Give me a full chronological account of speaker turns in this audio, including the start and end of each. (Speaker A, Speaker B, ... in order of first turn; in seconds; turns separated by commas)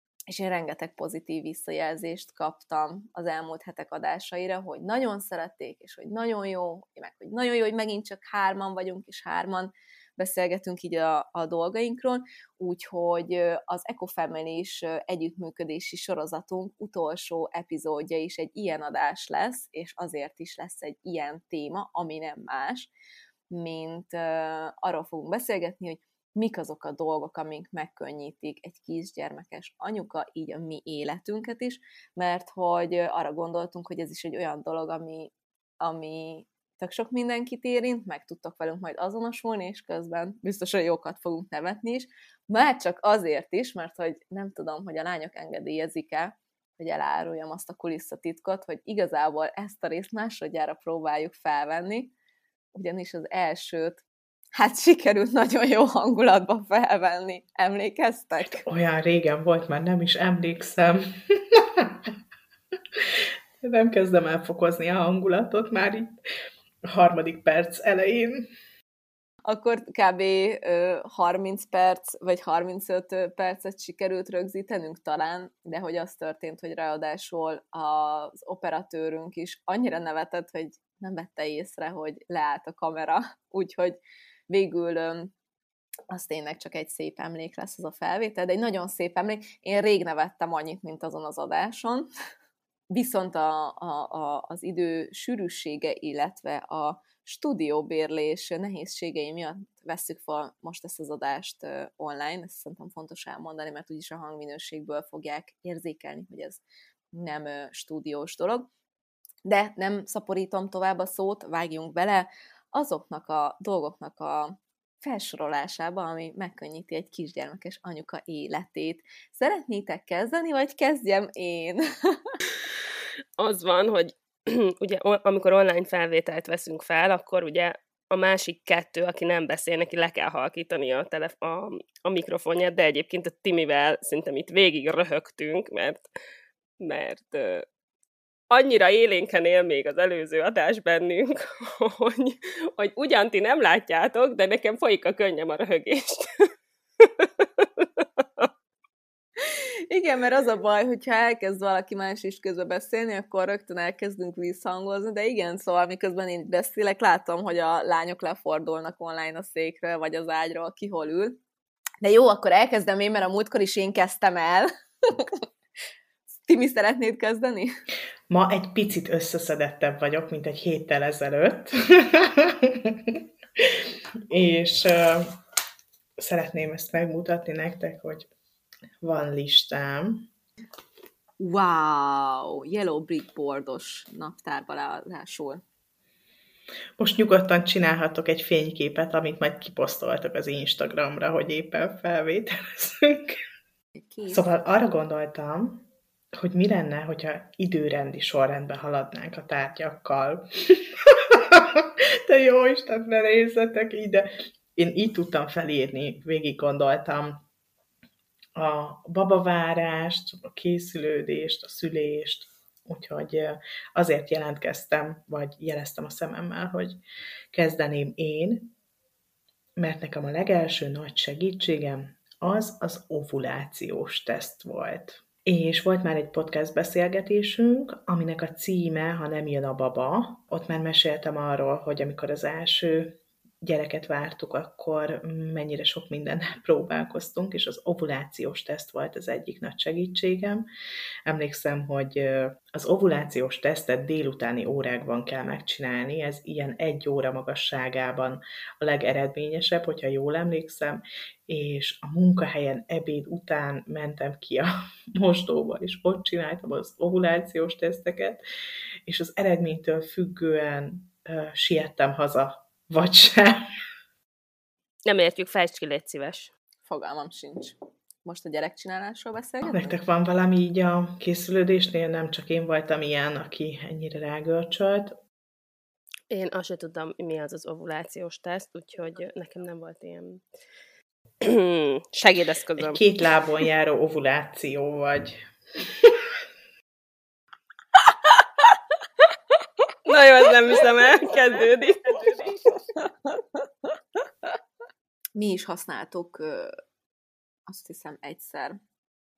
Speaker A: 0.3-22.9, Speaker A: 23.5-52.1, Speaker A: 52.7-54.0, Speaker A: 54.5-58.6, Speaker B: 58.4-62.1, Speaker B: 62.9-66.2, Speaker B: 66.8-68.5, Speaker A: 69.4-84.0, Speaker A: 84.5-85.3, Speaker A: 86.1-92.1, Speaker A: 92.9-106.6, Speaker A: 107.1-108.7, Speaker A: 109.4-122.3, Speaker C: 123.4-136.1, Speaker C: 136.8-137.7, Speaker C: 138.5-146.5, Speaker C: 147.0-148.5, Speaker A: 149.4-161.4, Speaker A: 162.0-165.4, Speaker A: 166.4-167.7, Speaker B: 168.3-175.3, Speaker B: 176.2-178.3, Speaker B: 179.0-180.3, Speaker A: 181.4-185.6, Speaker B: 187.0-193.4, Speaker A: 194.1-194.4, Speaker B: 194.3-207.4, Speaker B: 208.6-217.0, Speaker B: 217.5-218.7, Speaker B: 219.8-240.7, Speaker B: 241.2-258.4, Speaker B: 259.1-263.7, Speaker C: 265.1-266.5, Speaker A: 266.9-269.9, Speaker B: 269.6-275.2, Speaker C: 276.3-280.4, Speaker C: 281.4-283.0, Speaker B: 282.8-286.3, Speaker C: 290.0-292.5, Speaker A: 295.4-296.8, Speaker A: 297.7-298.8